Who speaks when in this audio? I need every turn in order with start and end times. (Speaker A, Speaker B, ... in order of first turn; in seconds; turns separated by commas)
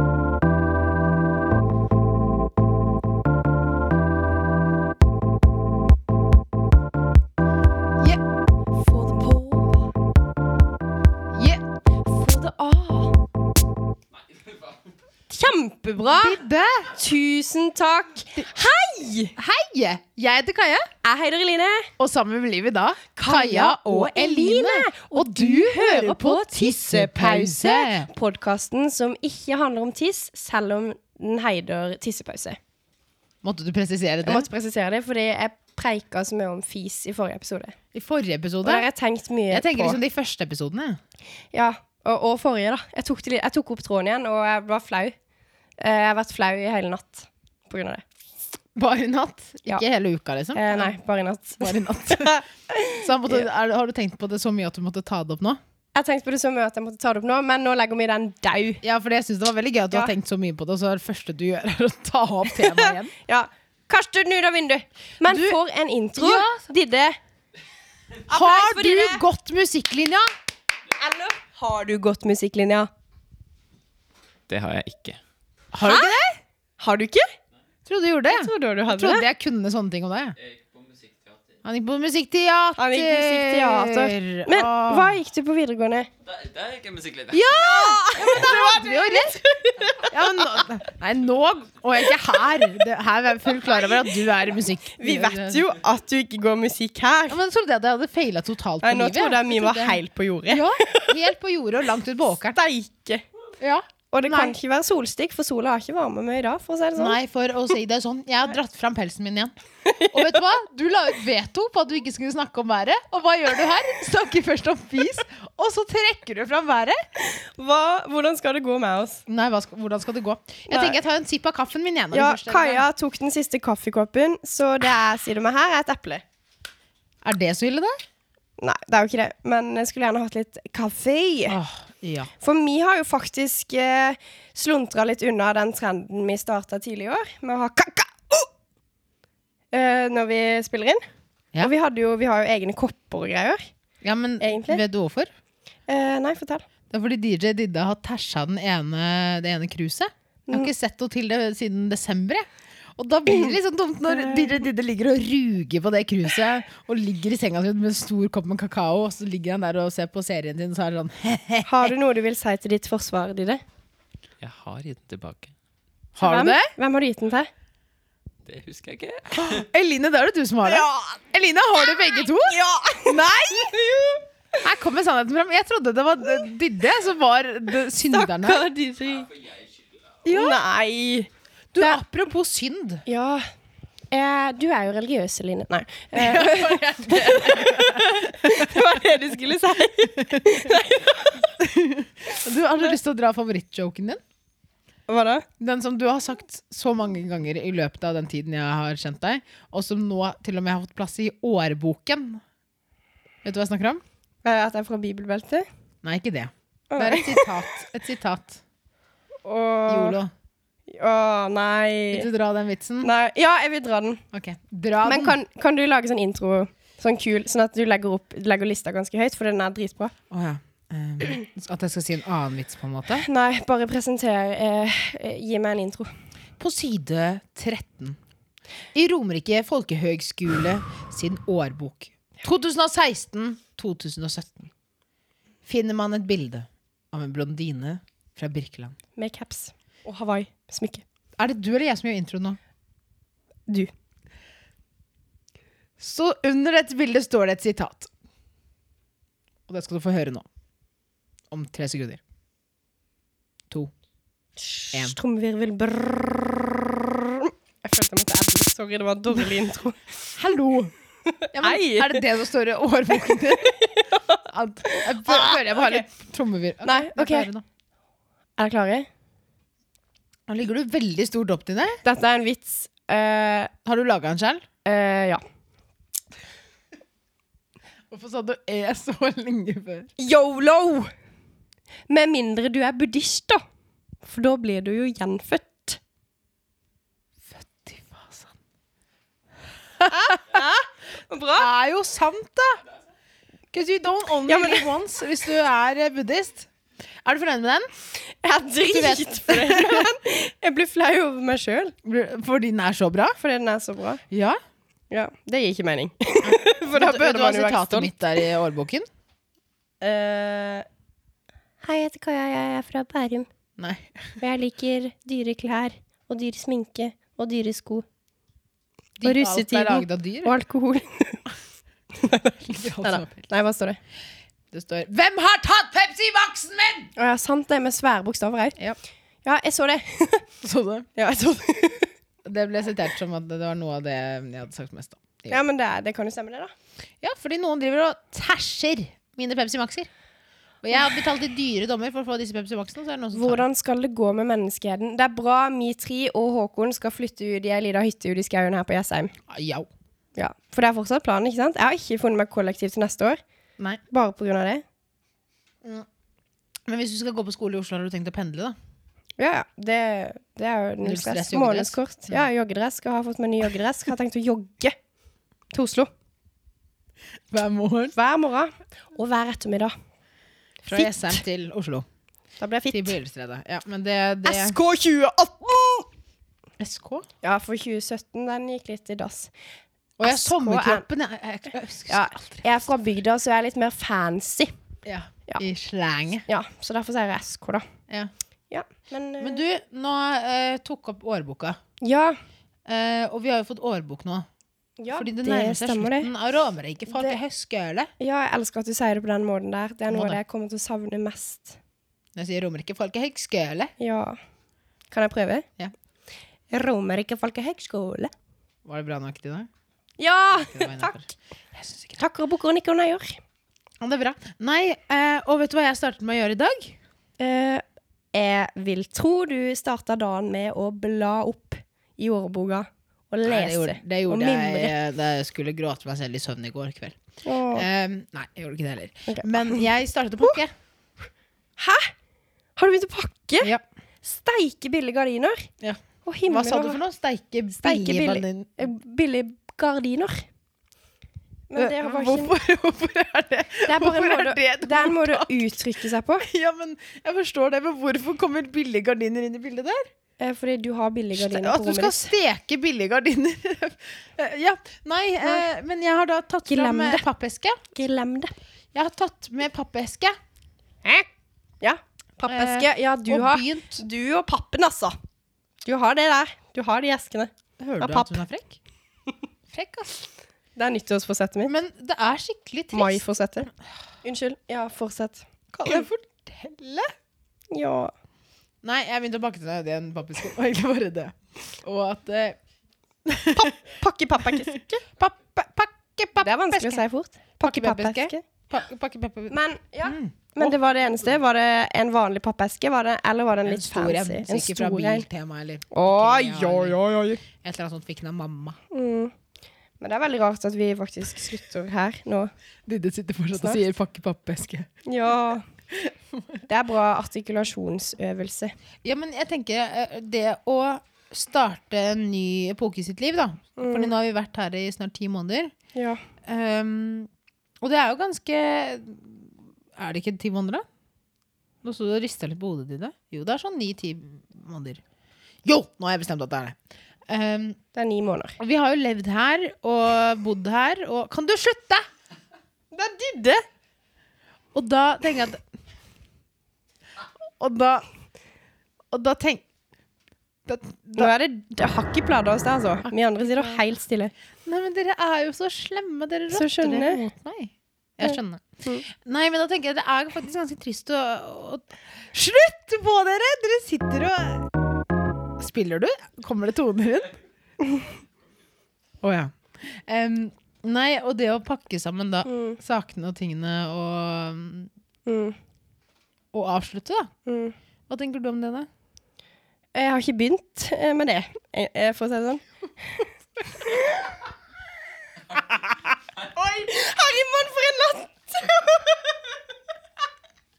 Speaker A: 8.7-9.9, Speaker B: 11.3-11.6, Speaker A: 12.0-13.2, Speaker C: 14.1-14.9, Speaker A: 15.3-16.4, Speaker B: 16.0-16.9, Speaker A: 16.9-19.3, Speaker B: 19.4-20.9, Speaker A: 21.0-21.9, Speaker B: 22.0-28.1, Speaker A: 23.1-32.6, Speaker B: 33.4-34.5, Speaker A: 34.2-37.8, Speaker B: 37.9-38.9, Speaker A: 38.6-40.0, Speaker B: 39.5-41.0, Speaker A: 41.5-45.1, Speaker A: 45.8-48.0, Speaker B: 48.7-51.0, Speaker A: 50.5-53.4, Speaker B: 51.6-55.6, Speaker A: 55.9-58.8, Speaker B: 58.8-63.1, Speaker A: 62.5-67.2, Speaker B: 65.2-65.6, Speaker B: 66.2-66.6, Speaker A: 68.3-69.2, Speaker B: 68.3-70.2, Speaker A: 70.9-72.9, Speaker C: 74.5-75.2, Speaker B: 75.7-76.4, Speaker A: 75.8-76.2, Speaker A: 76.8-77.3, Speaker B: 77.8-80.4, Speaker A: 78.3-79.2, Speaker C: 80.4-81.6, Speaker B: 81.6-85.2, Speaker A: 82.8-86.1, Speaker C: 86.2-87.5, Speaker B: 87.3-89.4, Speaker A: 87.3-90.6, Speaker B: 90.0-95.7, Speaker A: 93.5-94.2, Speaker A: 94.9-97.4, Speaker B: 97.3-102.6, Speaker A: 98.8-101.2, Speaker A: 102.5-103.2, Speaker B: 103.6-104.5, Speaker A: 104.1-107.2, Speaker B: 107.0-109.5, Speaker A: 109.8-110.4, Speaker B: 110.1-117.0, Speaker A: 117.2-119.2, Speaker B: 119.3-122.8, Speaker A: 120.7-121.0, Speaker A: 122.1-126.2, Speaker B: 127.2-128.0, Speaker A: 128.6-131.6, Speaker B: 131.5-132.3, Speaker A: 132.4-138.5, Speaker A: 139.7-141.0, Speaker A: 141.6-143.7, Speaker B: 144.0-145.3, Speaker A: 144.4-144.8, Speaker A: 145.9-146.7, Speaker B: 146.9-161.9, Speaker A: 154.1-154.5, Speaker A: 161.7-163.6, Speaker C: 164.4-165.5, Speaker B: 166.2-166.7, Speaker A: 166.2-167.5, Speaker C: 168.4-169.6, Speaker B: 169.3-173.7, Speaker A: 170.6-171.2, Speaker A: 172.0-174.6, Speaker B: 174.6-178.7, Speaker A: 178.1-179.3, Speaker C: 179.1-180.1, Speaker B: 180.2-180.6, Speaker A: 180.3-182.0, Speaker B: 181.7-183.0, Speaker A: 183.1-183.5, Speaker A: 184.1-191.5, Speaker B: 186.1-189.0, Speaker B: 190.0-190.6, Speaker B: 191.6-194.2, Speaker A: 195.1-195.4, Speaker B: 195.6-202.4, Speaker B: 203.4-204.0, Speaker A: 204.4-205.7, Speaker B: 206.0-208.6, Speaker A: 206.9-207.5, Speaker A: 209.4-210.2, Speaker B: 209.9-210.3, Speaker A: 210.9-212.3, Speaker B: 212.1-213.1, Speaker A: 213.0-214.2, Speaker B: 214.3-215.4, Speaker A: 215.0-220.1, Speaker B: 220.3-223.2, Speaker A: 223.2-226.1, Speaker B: 226.6-228.2, Speaker B: 228.9-234.7, Speaker B: 235.6-238.9, Speaker A: 239.2-241.0, Speaker B: 241.4-242.6, Speaker B: 246.0-248.1, Speaker B: 249.7-250.4, Speaker B: 251.5-252.2, Speaker A: 254.8-260.0, Speaker B: 254.9-255.2, Speaker B: 260.4-260.9, Speaker A: 261.3-262.2, Speaker B: 261.5-263.7, Speaker A: 263.5-266.1, Speaker B: 264.5-267.6, Speaker A: 266.8-267.5, Speaker A: 268.6-269.1, Speaker B: 270.5-272.0, Speaker A: 272.0-273.7, Speaker B: 273.8-274.6, Speaker A: 274.8-275.4, Speaker B: 278.1-280.1, Speaker A: 280.2-281.1, Speaker A: 282.1-283.6, Speaker A: 284.2-286.0, Speaker B: 287.5-288.5, Speaker B: 290.0-290.4, Speaker A: 290.1-291.7, Speaker B: 291.6-292.8, Speaker B: 293.7-296.7, Speaker A: 294.5-294.9, Speaker B: 297.2-297.9, Speaker A: 298.3-301.9, Speaker B: 298.8-300.1, Speaker B: 302.0-303.4, Speaker A: 303.4-304.2, Speaker B: 304.3-304.6, Speaker A: 305.1-308.1, Speaker B: 306.4-309.1, Speaker A: 310.0-310.9, Speaker A: 311.8-313.5, Speaker B: 313.8-314.2, Speaker A: 314.4-318.1, Speaker B: 319.2-320.5, Speaker A: 319.2-321.4, Speaker A: 322.2-324.0, Speaker B: 322.6-323.4, Speaker B: 324.7-327.1, Speaker A: 327.1-328.8, Speaker A: 329.4-330.5, Speaker B: 330.6-331.1, Speaker A: 331.1-332.1, Speaker B: 332.4-335.6, Speaker A: 335.5-336.7, Speaker B: 337.2-340.1, Speaker B: 340.8-343.6, Speaker A: 343.3-349.3, Speaker B: 349.5-349.9, Speaker A: 350.4-353.4, Speaker A: 354.1-354.8, Speaker B: 356.9-358.8, Speaker A: 359.4-364.9, Speaker B: 361.0-362.4, Speaker A: 365.7-366.1, Speaker B: 367.5-368.1, Speaker A: 368.1-369.9, Speaker A: 370.8-371.4, Speaker B: 370.9-372.1, Speaker A: 372.6-373.1, Speaker B: 372.9-374.8, Speaker A: 374.4-376.1, Speaker B: 376.8-377.3, Speaker A: 377.4-379.5, Speaker B: 380.2-382.6, Speaker A: 380.2-381.0, Speaker A: 382.1-384.7, Speaker B: 385.1-386.4, Speaker A: 386.5-387.9, Speaker A: 388.7-389.6, Speaker B: 389.4-391.8, Speaker A: 392.0-392.4, Speaker B: 392.9-394.5, Speaker A: 395.0-396.3, Speaker B: 395.1-398.1, Speaker A: 398.2-401.8, Speaker B: 400.1-400.4, Speaker B: 402.4-403.9, Speaker A: 404.0-404.4, Speaker A: 405.1-405.6, Speaker A: 406.7-408.3, Speaker B: 408.8-409.7, Speaker A: 410.2-411.3, Speaker B: 410.6-412.2, Speaker A: 412.2-413.4, Speaker B: 414.0-417.0, Speaker A: 417.4-424.9, Speaker B: 423.4-427.1, Speaker A: 427.4-427.9, Speaker B: 427.7-430.7, Speaker A: 429.3-429.8, Speaker A: 431.8-432.1, Speaker A: 432.8-433.7, Speaker A: 434.2-435.7, Speaker B: 435.8-438.7, Speaker A: 436.2-437.0, Speaker A: 437.7-440.4, Speaker A: 441.7-442.5, Speaker B: 441.8-445.9, Speaker A: 443.9-446.5, Speaker B: 446.4-450.1, Speaker A: 450.4-452.3, Speaker B: 451.4-457.8, Speaker A: 456.7-457.2, Speaker A: 457.9-458.5, Speaker B: 458.9-460.4, Speaker A: 461.8-465.2, Speaker B: 462.5-464.0, Speaker A: 465.8-468.4, Speaker B: 467.8-468.8, Speaker B: 469.7-470.2, Speaker A: 470.8-471.7, Speaker B: 471.7-473.2, Speaker A: 472.9-473.7, Speaker A: 474.2-476.1, Speaker B: 475.7-477.1, Speaker A: 477.7-478.1, Speaker B: 478.8-482.6, Speaker B: 483.2-483.7, Speaker A: 483.5-485.0, Speaker B: 484.5-487.0, Speaker A: 486.4-488.4, Speaker B: 487.6-491.2, Speaker A: 489.5-495.2, Speaker B: 493.6-498.8, Speaker A: 495.9-497.4, Speaker A: 498.9-499.3, Speaker A: 500.0-502.5, Speaker B: 502.9-504.9, Speaker A: 505.1-505.7, Speaker B: 505.9-506.6, Speaker A: 506.7-508.7, Speaker B: 509.0-515.7, Speaker A: 513.8-514.1, Speaker A: 515.9-516.2, Speaker B: 516.4-517.3, Speaker B: 517.8-520.8, Speaker B: 521.8-525.0, Speaker B: 525.6-527.8, Speaker A: 527.9-528.5, Speaker B: 528.6-532.0, Speaker A: 532.9-533.6, Speaker B: 534.7-535.6, Speaker B: 537.6-538.0, Speaker B: 539.1-539.6, Speaker B: 540.6-541.3, Speaker A: 541.1-544.3, Speaker B: 543.0-543.8, Speaker B: 544.6-554.7, Speaker A: 546.5-547.3, Speaker A: 548.2-549.0, Speaker B: 555.6-557.4, Speaker B: 559.2-564.9, Speaker A: 562.5-562.8, Speaker A: 565.2-565.6, Speaker B: 566.5-567.3, Speaker A: 567.5-567.7, Speaker B: 568.1-568.9, Speaker A: 569.9-574.0, Speaker A: 576.4-579.4